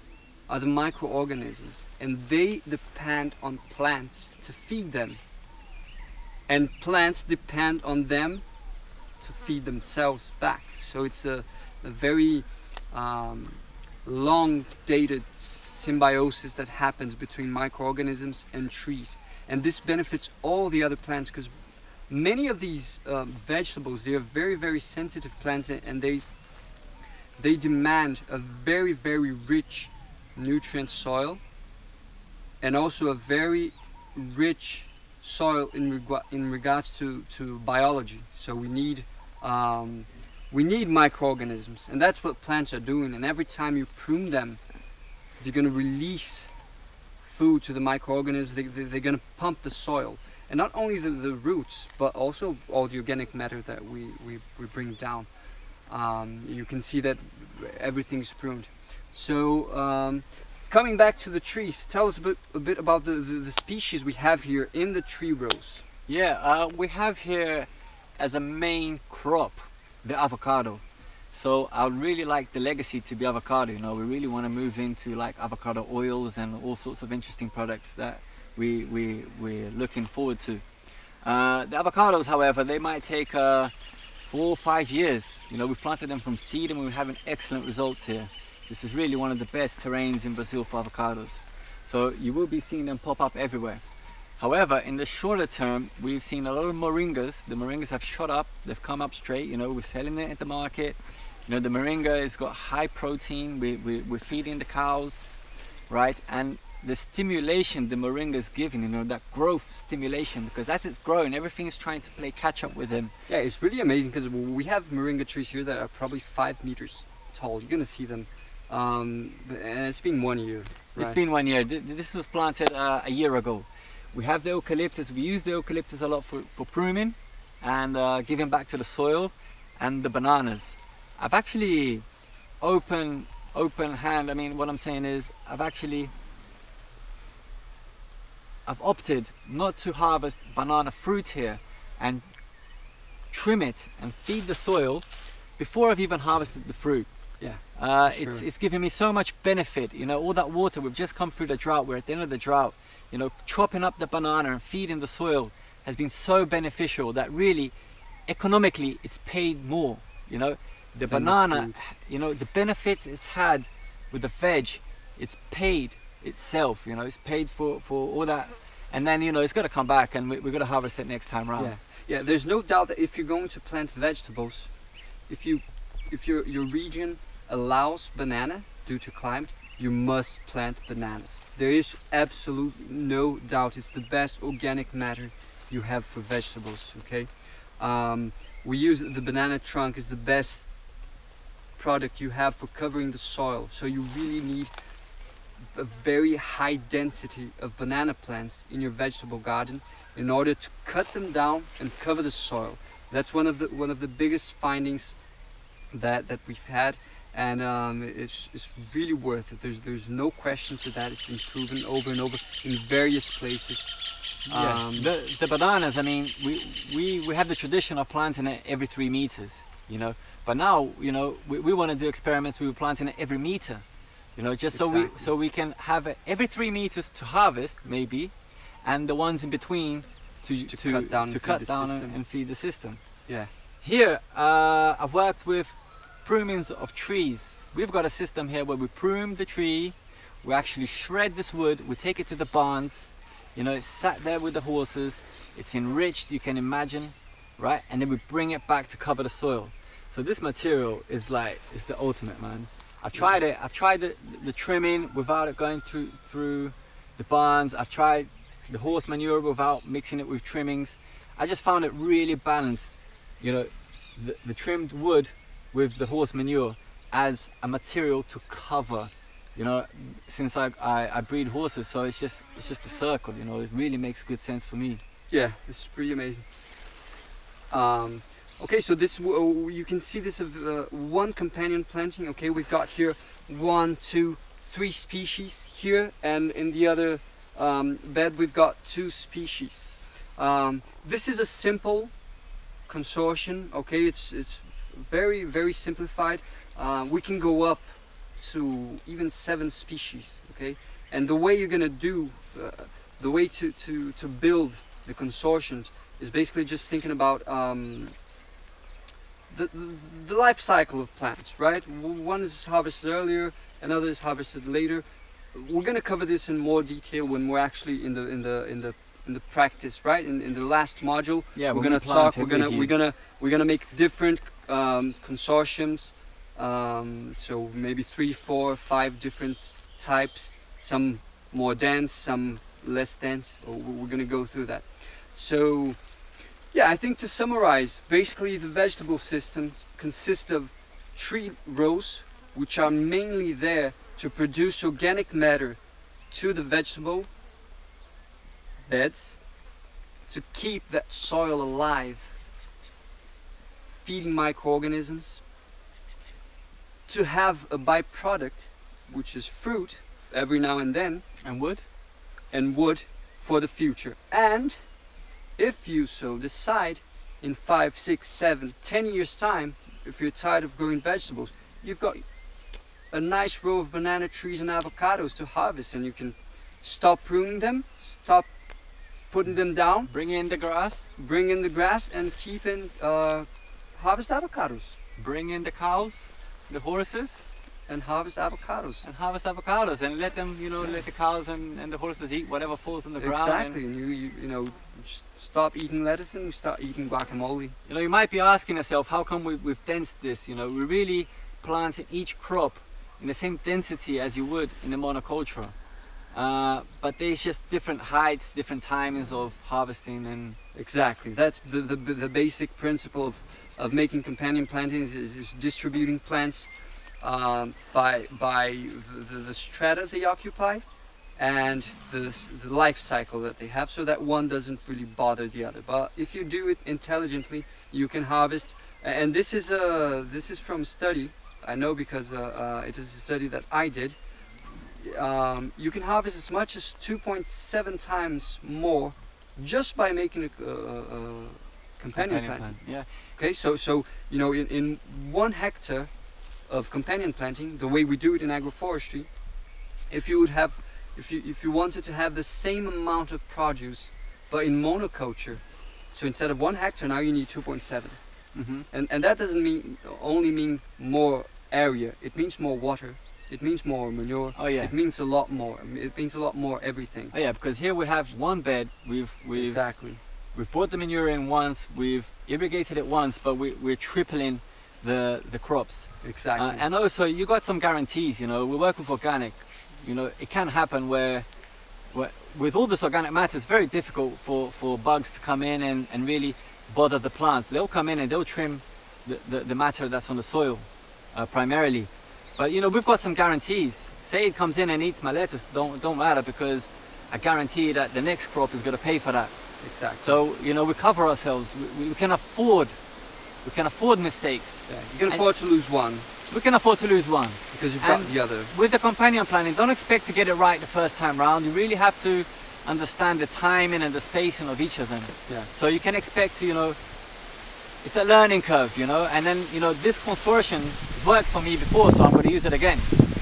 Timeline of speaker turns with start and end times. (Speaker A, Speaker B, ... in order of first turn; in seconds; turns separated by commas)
Speaker A: 0.5-5.2, Speaker A: 6.5-8.4, Speaker A: 9.2-21.5, Speaker A: 22.1-26.2, Speaker A: 27.4-31.4, Speaker A: 32.6-44.6, Speaker A: 45.4-46.5, Speaker A: 47.2-55.3, Speaker A: 55.9-65.8, Speaker B: 66.1-80.6, Speaker B: 81.2-83.7, Speaker B: 84.2-93.8, Speaker B: 94.4-105.3, Speaker B: 105.9-113.1, Speaker A: 113.3-121.2, Speaker B: 121.0-132.0, Speaker B: 132.6-136.1, Speaker B: 138.7-142.2, Speaker B: 143.3-145.0, Speaker B: 145.6-147.1, Speaker A: 147.4-148.4, Speaker B: 147.7-157.7, Speaker B: 158.3-171.7, Speaker A: 161.1-161.8, Speaker A: 171.6-174.7, Speaker A: 175.3-190.7, Speaker A: 191.8-194.7, Speaker A: 195.7-205.2, Speaker A: 205.9-213.9, Speaker A: 214.5-215.1, Speaker B: 214.5-223.8, Speaker B: 224.3-228.3, Speaker A: 224.7-225.2, Speaker B: 228.8-233.0, Speaker A: 230.6-232.1, Speaker B: 233.8-275.0, Speaker A: 275.3-276.4, Speaker A: 277.7-292.1, Speaker A: 292.9-308.1, Speaker A: 309.5-336.0, Speaker B: 321.5-322.9, Speaker A: 336.7-345.8, Speaker A: 346.3-347.3, Speaker A: 348.9-349.4, Speaker A: 350.3-352.3, Speaker A: 354.0-355.4, Speaker A: 357.1-361.2, Speaker B: 361.4-361.8, Speaker A: 362.5-364.9, Speaker A: 365.6-372.2, Speaker A: 373.1-378.5, Speaker A: 379.3-380.1, Speaker B: 380.1-381.1, Speaker A: 381.2-384.9, Speaker B: 385.2-387.4, Speaker A: 387.9-389.1, Speaker B: 389.0-393.8, Speaker A: 393.2-397.7, Speaker B: 397.9-405.7, Speaker B: 406.3-410.6, Speaker A: 410.7-420.8, Speaker A: 421.4-434.2, Speaker A: 434.7-446.1, Speaker B: 442.1-443.1, Speaker A: 446.7-449.3, Speaker A: 450.1-458.2, Speaker B: 458.5-458.9, Speaker A: 458.9-467.3, Speaker B: 464.5-464.9, Speaker B: 467.3-470.0, Speaker A: 469.5-470.2, Speaker B: 470.5-481.5, Speaker A: 476.2-476.8, Speaker B: 482.1-499.5, Speaker A: 499.8-500.4, Speaker B: 500.2-502.9, Speaker B: 503.6-505.4, Speaker A: 504.9-506.3, Speaker B: 506.5-517.0, Speaker A: 507.7-508.7, Speaker B: 518.0-523.1